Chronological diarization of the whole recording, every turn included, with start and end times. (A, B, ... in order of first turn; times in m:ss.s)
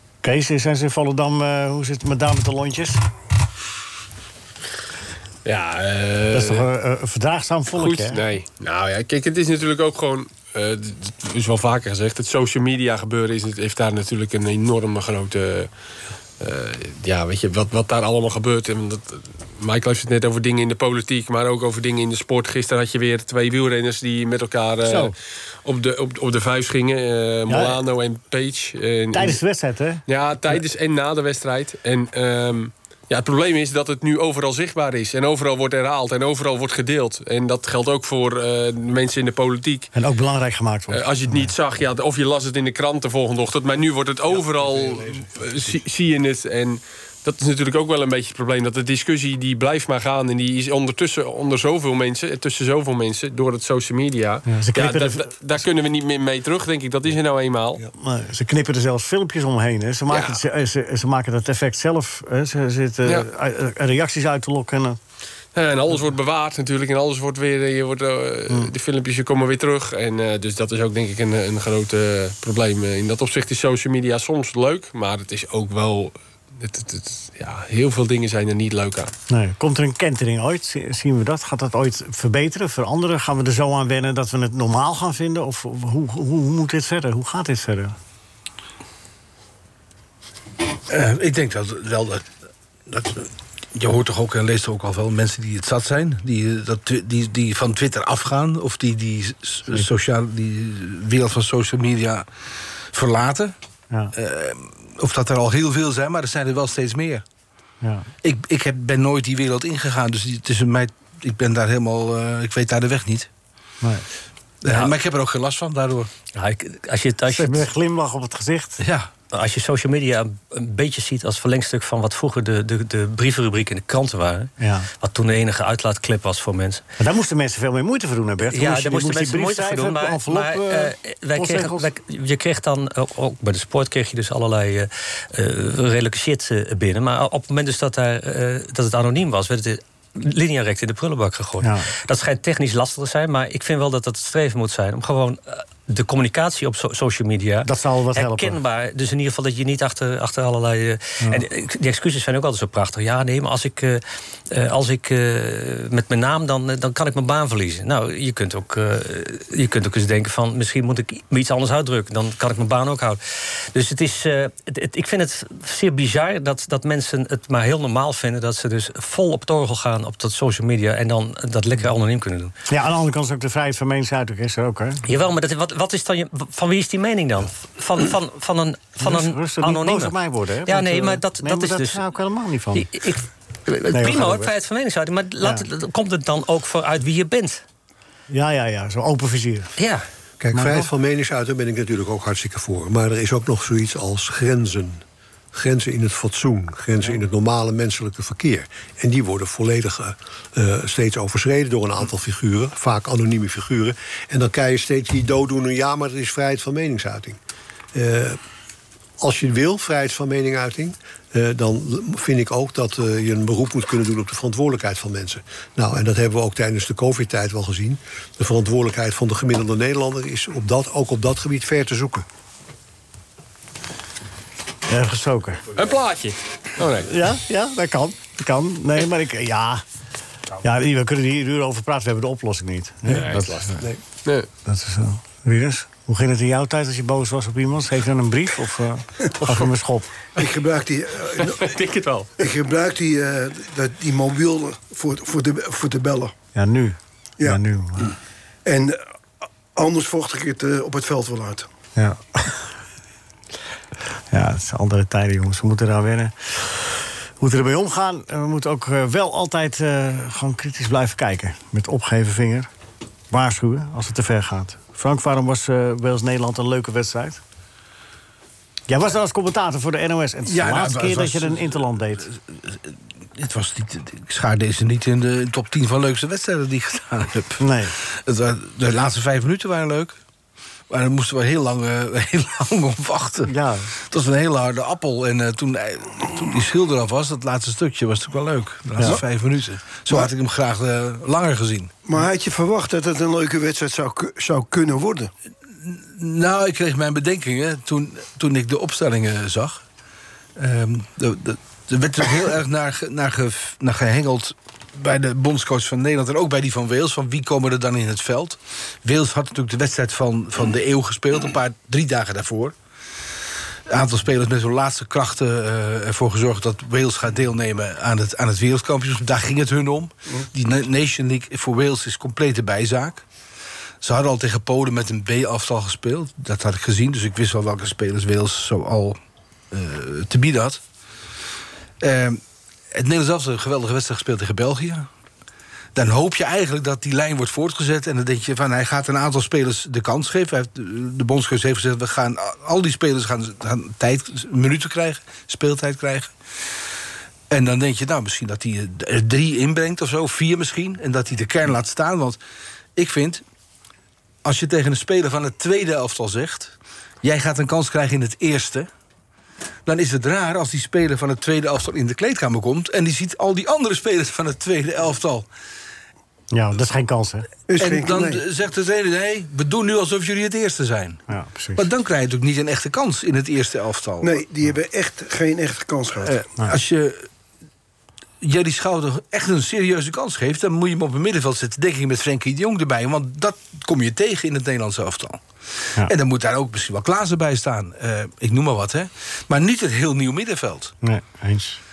0:00.2-0:03.0 A
0:05.4-0:06.6 B
0:06.3-0:08.2 A
0:07.8-0:15.7 B
0:16.4-0:25.1 B
0:24.8-0:25.1 A
0:25.6-0:29.4 B
0:27.5-0:27.8 A
0:29.1-0:30.6 A
0:30.1-0:39.9 B
0:39.9-0:41.5 A
0:40.9-0:57.8 B
0:54.5-0:55.3 A
0:58.0-1:05.0 A
1:00.1-1:00.4 B
1:05.5-1:19.1 B
1:19.3-1:27.9 A
1:30.9-1:32.2 C
1:32.9-1:42.3 C
1:42.9-1:43.5 C
1:44.1-1:47.2 C
1:47.8-1:48.1 A
1:48.2-1:53.3 C
1:54.6-1:56.1 C
1:54.7-1:54.9 D
1:56.3-1:57.7 D
1:57.3-1:58.8 A
1:58.8-1:59.1 C
1:59.3-2:06.8 D
2:04.6-2:04.9 A
2:07.0-2:11.9 A
2:08.5-2:43.2 D
2:21.6-2:21.9 A
2:27.6-2:28.6 A
2:43.7-2:52.5 D
2:52.7-2:55.0 A
2:55.0-3:02.0 D
2:59.0-3:02.9 A
3:02.7-3:07.6 D
3:03.9-3:04.5 A
3:08.3-3:09.7 A
3:09.8-3:10.0 D
3:10.4-3:15.0 E
3:10.5-3:10.9 A
3:15.5-3:27.4 E
3:27.9-3:28.4 E
3:29.2-3:42.2 E
3:44.9-3:45.6 A
3:45.8-3:47.1 B
3:47.0-3:49.8 A
3:50.6-3:53.8 A
3:53.1-3:54.5 B
3:54.6-4:00.2 A
4:00.4-4:01.7 F
4:01.4-4:02.3 B
4:02.4-4:06.3 F
4:06.5-4:08.1 A
4:08.6-4:09.0 F
4:09.7-4:11.7 F
4:12.0-4:12.7 A
4:14.3-4:22.7 A
4:23.3-4:27.4 A
4:28.9-4:32.3 A
4:30.5-4:40.2 C
4:37.6-4:37.9 A
4:40.9-4:43.5 C
4:43.5-4:43.9 A
4:44.1-4:51.9 C
4:52.0-4:55.3 F
4:55.8-4:59.8 C
5:00.6-5:12.7 C
5:13.9-5:23.2 C
5:24.0-5:29.2 C
5:29.7-5:30.8 C
5:32.0-5:32.4 C
5:32.9-5:35.1 C
5:35.9-5:46.3 C
5:47.5-5:52.4 C
5:53.0-5:53.4 C
5:54.4-5:58.9 C
5:59.8-6:05.5 C
6:06.5-6:07.5 A
6:07.7-6:08.4 F
6:07.8-6:11.2 C
6:11.3-6:11.8 A
6:11.8-6:14.4 C
6:14.2-6:16.3 F
6:16.2-6:17.3 C
6:18.4-6:25.4 C
6:26.0-6:30.9 C
6:31.0-6:31.8 A